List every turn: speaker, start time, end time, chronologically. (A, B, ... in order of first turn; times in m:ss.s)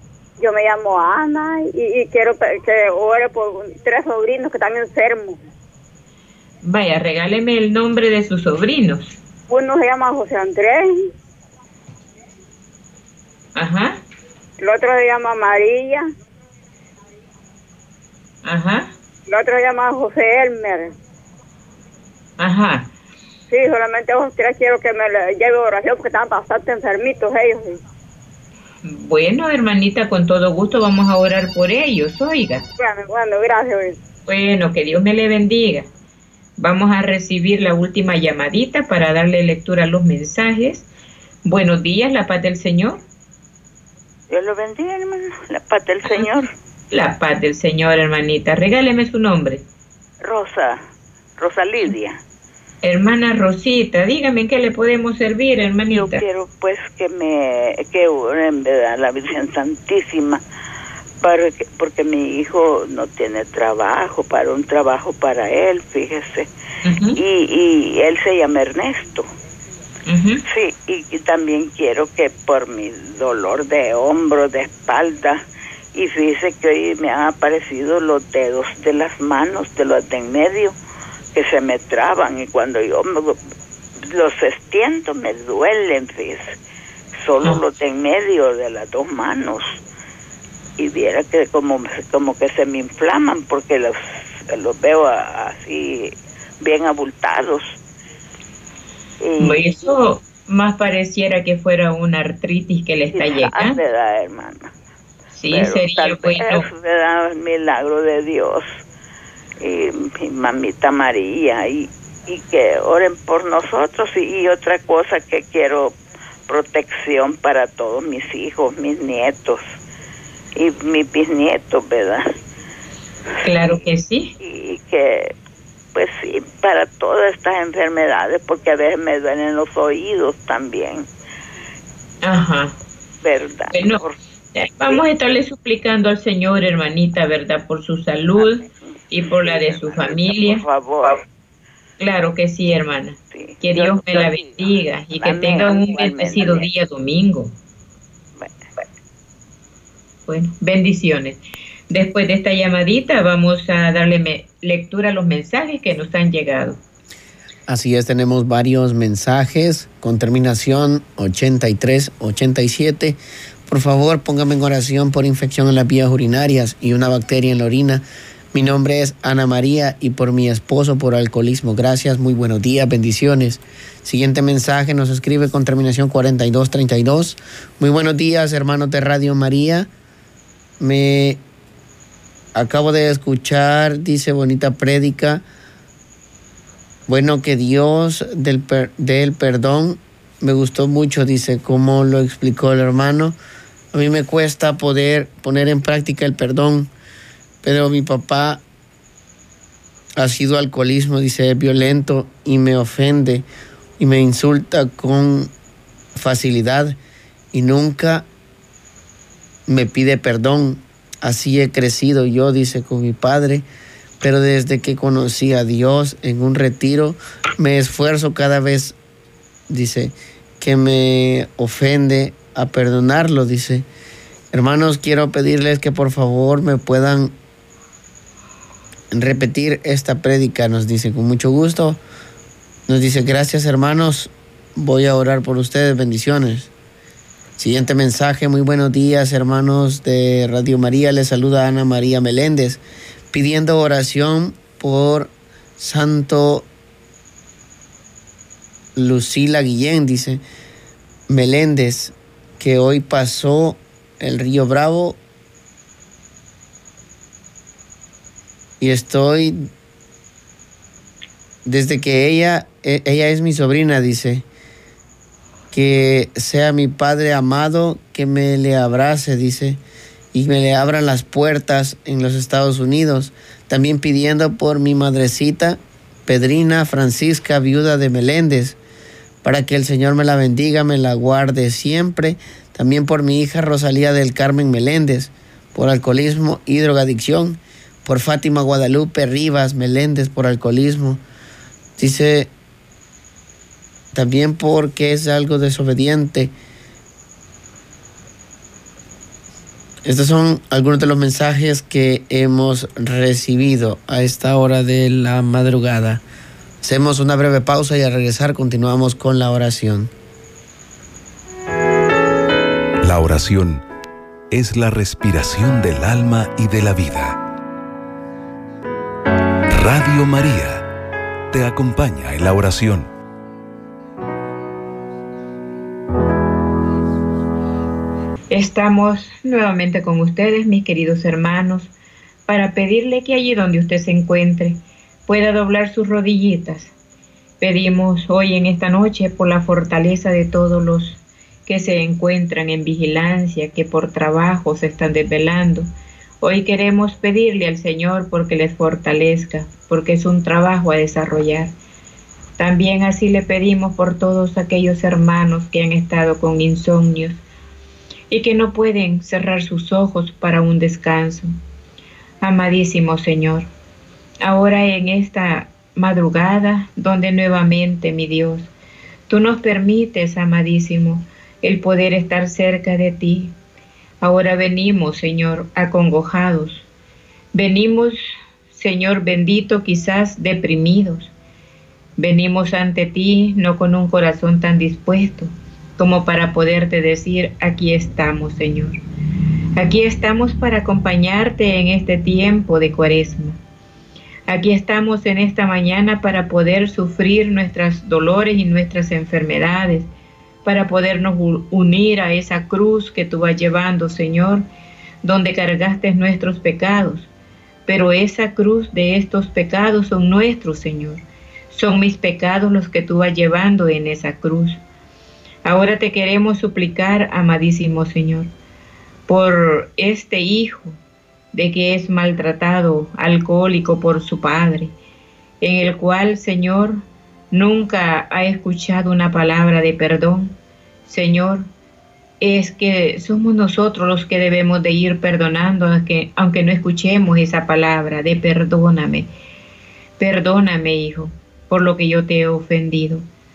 0:00.4-0:05.4 A
0:06.6-0:09.1 B
0:09.5-0:11.1 A
0:13.6-0:14.0 B
0:14.6-0:16.1 A
0:18.4-0:18.9 B
0:19.3-0:20.9 A
0:22.4-0:22.9 B
0:23.5-0:27.8 A
0:28.8-0:32.7 B
0:32.8-0:34.0 A
0:34.3-0:35.9 B
0:36.6-0:40.9 B
0:41.4-0:43.0 B
0:44.3-0:46.5 C
0:46.1-0:49.6 B
0:50.2-0:50.8 C
0:51.4-0:52.2 C
0:52.8-0:56.2 B
0:55.9-1:00.4 C
1:01.2-1:06.5 C
1:06.8-1:07.2 B
1:07.2-1:09.3 C
1:10.1-1:10.4 B
1:10.5-1:15.4 C
1:16.0-1:20.8 C
1:21.4-1:23.4 C
1:24.1-1:26.6 C
1:27.2-1:29.8 C
1:30.8-1:37.8 C
1:39.2-1:39.8 C
1:39.4-1:43.8 B
1:43.1-1:44.7 C
1:45.4-1:46.7 B
1:45.5-1:48.6 C
1:49.6-1:56.0 C
1:56.5-1:59.6 C
2:00.6-2:02.4 C
2:03.4-2:04.3 B
2:03.5-2:03.8 C
2:04.4-2:05.3 C
2:06.0-2:11.1 C
2:12.2-2:12.8 B
2:13.2-2:14.2 C
2:13.7-2:14.0 B
2:14.6-2:20.6 B
2:18.4-2:21.2 C
2:22.0-2:27.5 B
2:23.3-2:26.7 C
2:30.3-2:31.4 B
2:31.9-2:36.8 B
2:37.7-2:59.9 D
3:00.8-3:01.4 D
3:02.6-3:05.4 D
3:07.1-3:13.4 D
3:13.9-3:16.9 D
3:17.6-3:18.6 D
3:20.2-3:23.5 D
3:24.0-3:25.5 D
3:26.2-3:27.0 D
3:27.5-3:28.3 D
3:29.7-3:33.6 D
3:34.2-3:39.0 D
3:39.7-3:43.9 D
3:44.5-3:47.4 D
3:49.1-3:52.0 D
3:52.9-3:56.7 D
3:57.6-4:06.7 D
4:09.0-4:10.4 D
4:11.3-4:15.2 D
4:18.8-4:19.7 D
4:21.6-4:24.5 D
4:25.7-4:29.8 D
4:30.3-4:38.8 D
4:39.4-4:51.2 D
4:52.0-4:52.5 D
4:54.1-4:56.5 D
5:00.0-5:06.2 D
5:06.8-5:10.1 D
5:13.0-5:13.8 E
5:14.5-5:17.4 E
5:19.7-5:20.9 E
5:21.5-5:23.1 E
5:28.5-5:31.9 B
5:32.5-5:36.9 B
5:37.6-5:45.9 B
5:46.4-5:51.7 B
5:52.6-5:57.4 B
5:58.3-6:01.5 B
6:02.4-6:03.7 B
6:04.4-6:08.7 B
6:09.3-6:13.5 B
6:14.2-6:16.8 B
6:17.5-6:18.2 B
6:18.7-6:21.3 B
6:22.2-6:29.0 B
6:29.8-6:33.6 B
6:34.5-6:40.1 B
6:40.6-6:44.6 B
6:45.2-6:47.3 B
6:47.9-6:54.8 B
6:55.6-6:58.5 B
6:59.3-7:01.0 B
7:01.5-7:04.9 B
7:05.6-7:10.5 B
7:11.1-7:11.7 B
7:12.4-7:19.3 B
7:20.2-7:23.2 B